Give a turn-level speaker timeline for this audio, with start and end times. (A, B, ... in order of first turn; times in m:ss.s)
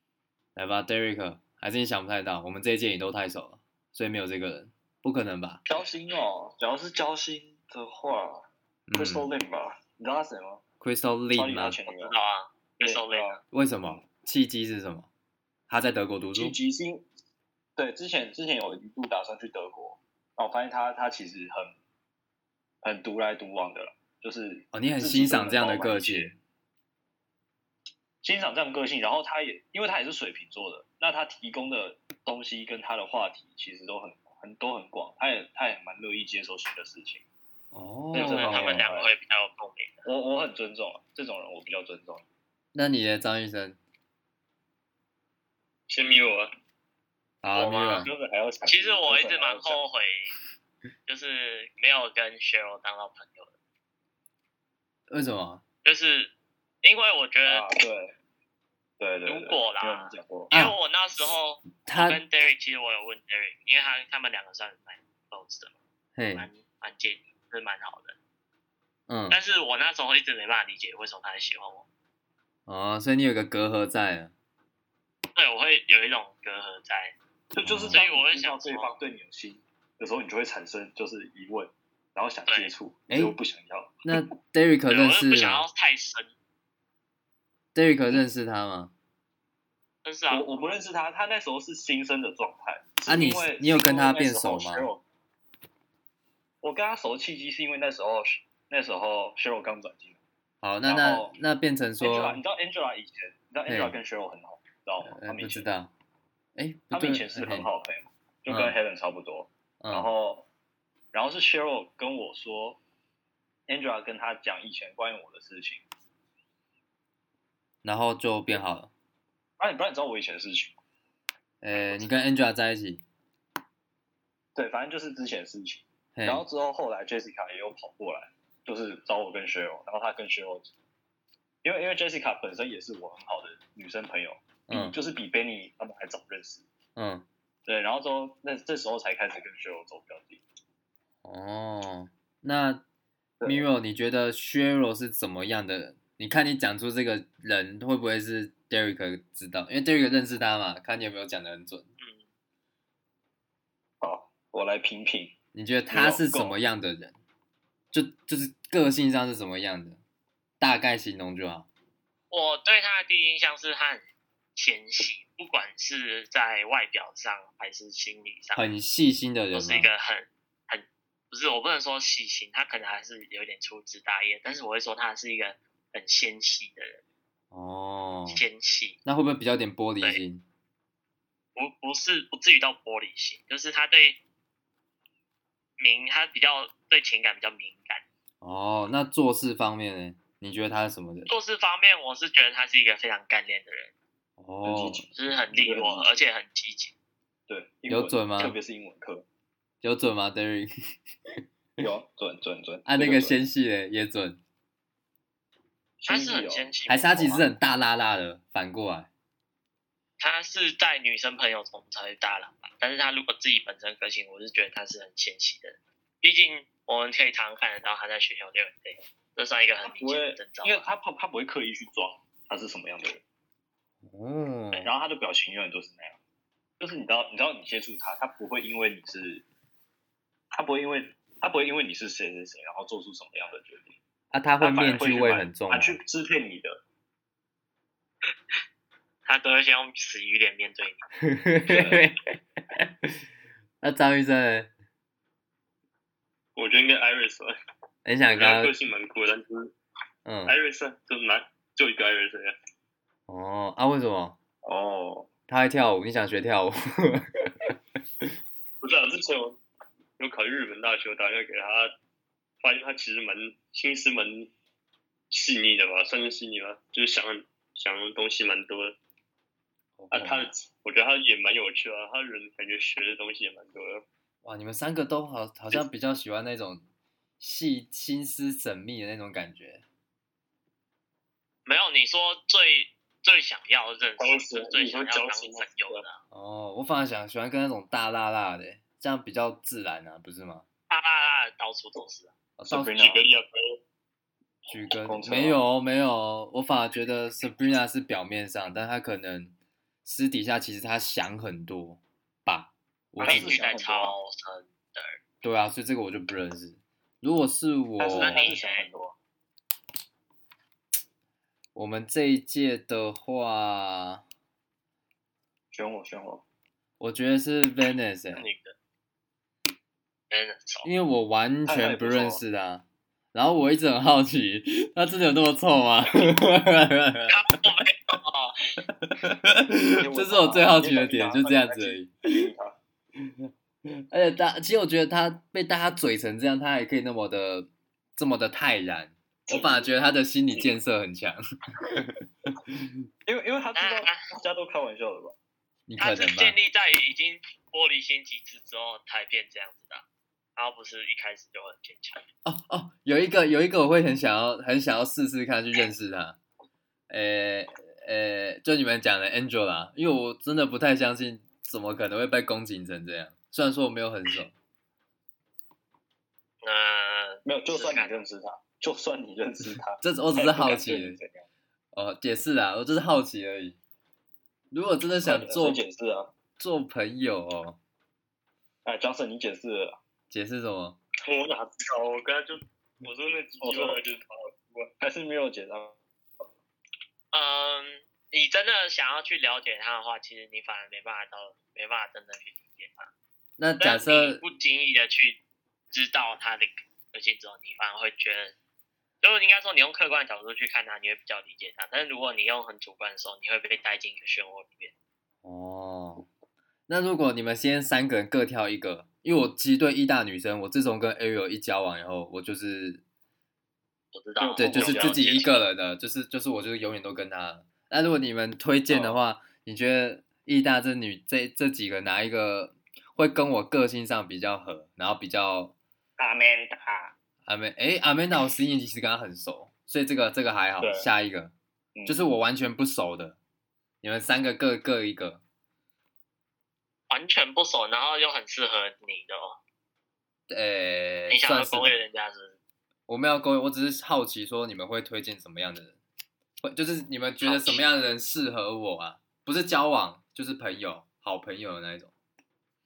0:00.6-0:05.6 A
0:05.7-0:10.6 B
0:08.9-0:09.3 A
0:10.8-0:11.8 A
0:11.3-0:12.1 B
0:11.9-0:13.4 C
0:12.8-0:14.0 B
0:13.5-0:15.1 A
0:15.7-0:16.6 A
0:16.4-0:17.0 B
0:17.8-0:21.8 B
0:22.8-0:26.3 B
0:24.7-0:26.4 A
0:28.2-0:37.2 B
0:37.7-0:38.9 A
0:38.1-0:39.1 B
0:38.1-0:40.0 C
0:40.0-0:42.2 B
0:42.7-0:43.8 A
0:45.9-0:46.5 D
0:47.4-0:48.1 A
0:47.5-0:48.1 C
0:48.0-0:49.8 B
0:48.6-0:50.3 C
0:51.1-0:53.5 C
0:55.1-0:55.6 A
0:55.8-0:57.6 C
0:57.4-0:58.1 B
0:59.0-1:00.5 B
0:59.2-1:05.8 C
1:00.5-1:00.8 A
1:01.8-1:02.2 A
1:06.1-1:06.5 A
1:06.3-1:08.2 C
1:09.1-1:09.4 A
1:09.3-1:11.9 C
1:12.7-1:14.3 A
1:15.4-1:17.1 C
1:17.5-1:24.0 B
1:17.6-1:18.0 A
1:17.9-1:18.9 C
1:22.5-1:22.7 C
1:23.1-1:23.3 A
1:24.0-1:25.7 A
1:24.9-1:26.3 C
1:27.7-1:28.9 A
1:30.0-1:30.8 C
1:30.3-1:35.0 B
1:33.0-1:34.9 A
1:36.6-1:40.2 B
1:40.6-1:42.4 A
1:40.9-1:41.3 B
1:42.0-1:45.7 B
1:43.7-1:44.0 A
1:45.0-1:45.9 A
1:46.6-1:47.7 A
1:46.9-1:50.5 B
1:48.5-1:48.8 A
1:49.8-1:50.1 A
1:51.1-1:52.8 B
1:53.7-1:55.8 B
1:57.8-1:58.9 A
1:59.6-2:00.8 B
2:01.6-2:03.0 A
2:01.8-2:02.1 C
2:04.5-2:10.7 B
2:06.1-2:06.4 A
2:11.6-2:16.6 B
2:14.7-2:15.0 A
2:17.0-2:17.2 A
2:17.6-2:20.4 B
2:21.2-2:22.8 A
2:23.4-2:31.9 A
2:32.0-2:32.2 C
2:34.0-2:35.3 B
2:35.5-2:37.1 A
2:35.9-2:36.6 B
2:37.9-2:40.0 A
2:40.6-2:41.7 A
2:42.3-2:44.0 C
2:44.5-2:48.6 C
2:48.5-2:49.9 A
2:49.5-2:57.0 C
2:57.5-2:58.4 A
2:58.3-2:59.0 C
2:59.0-3:00.4 A
3:01.6-3:04.2 C
3:05.8-3:08.0 C
3:08.4-3:11.3 A
3:11.3-3:13.9 C
3:14.4-3:15.1 A
3:14.6-3:16.1 B
3:15.1-3:16.9 C
3:17.5-3:19.2 B
3:17.9-3:18.6 A
3:19.8-3:20.7 A
3:21.8-3:23.4 B
3:22.8-3:24.4 A
3:26.0-3:26.7 B
3:26.1-3:27.4 C
3:26.9-3:29.1 A
3:30.2-3:40.8 C
3:39.8-3:43.2 B
3:44.0-3:44.9 A
3:44.8-3:46.2 B
3:46.8-3:49.4 B
3:50.5-3:53.9 B
3:54.3-3:56.0 A
3:54.6-3:56.8 B
3:59.2-4:01.0 C
4:01.2-4:03.1 A
4:01.7-4:02.0 B
4:03.8-4:04.7 A
4:06.6-4:07.5 D
4:08.0-4:08.7 A
4:08.3-4:09.7 D
4:10.2-4:10.6 A
4:10.4-4:12.5 D
4:13.3-4:14.4 A
4:14.7-4:15.2 D
4:15.5-4:18.3 A
4:18.8-4:19.6 D
4:20.2-4:21.9 D
4:22.6-4:24.5 D
4:25.3-4:29.0 D
4:30.0-4:30.5 A
4:30.1-4:34.0 D
4:34.4-4:36.8 A
4:37.4-4:39.8 A
4:41.6-4:46.2 C
4:44.2-4:46.0 D
4:46.3-4:50.6 A
4:50.9-4:52.3 C
4:52.6-4:52.9 A
4:52.6-4:53.2 B
4:52.9-4:53.8 D
4:54.7-4:59.5 A
4:55.0-4:55.6 B
5:00.0-5:03.6 A
5:03.2-5:04.1 B
5:03.2-5:05.2 C
5:05.4-5:08.6 A
5:08.0-5:09.1 B
5:08.2-5:08.9 C
5:11.7-5:14.2 A
5:15.7-5:16.4 B
5:17.0-5:18.5 A
5:18.3-5:18.8 C
5:20.3-5:20.9 C
5:20.8-5:27.4 A
5:21.6-5:22.4 B
5:27.3-5:28.6 C
5:29.0-5:32.4 A
5:30.0-5:32.8 B
5:33.9-5:42.9 A
5:39.5-5:39.8 B
5:43.2-5:45.3 B
5:43.7-5:44.2 C
5:45.9-5:46.6 A
5:46.0-5:50.0 C
5:50.6-5:52.2 C
5:52.4-5:56.4 A
5:57.1-6:04.5 A
6:06.6-6:08.2 C
6:07.4-6:11.4 B
6:10.0-6:11.2 A
6:11.9-6:13.8 A
6:14.7-6:15.8 A
6:15.2-6:16.3 B
6:16.6-6:17.8 A
6:18.8-6:20.0 B
6:20.3-6:21.0 A
6:21.2-6:24.9 D
6:23.6-6:24.0 B
6:25.0-6:26.0 B
6:27.3-6:33.1 C
6:33.6-6:34.4 A
6:33.8-6:35.4 C
6:35.9-6:38.5 C
6:39.2-6:44.9 C
6:45.4-6:46.3 A
6:46.9-6:53.0 A
6:54.1-6:55.6 C
6:54.4-6:55.4 B
6:54.6-7:05.7 A
6:58.9-6:59.2 B
7:06.2-7:07.1 B
7:07.4-7:11.5 A
7:10.8-7:11.1 B
7:11.9-7:12.2 B
7:12.0-7:13.4 A
7:14.0-7:15.4 A
7:17.1-7:19.6 C
7:20.5-7:22.0 A
7:21.3-7:22.6 C
7:23.1-7:26.0 A
7:26.6-7:32.1 A
7:27.4-7:27.8 C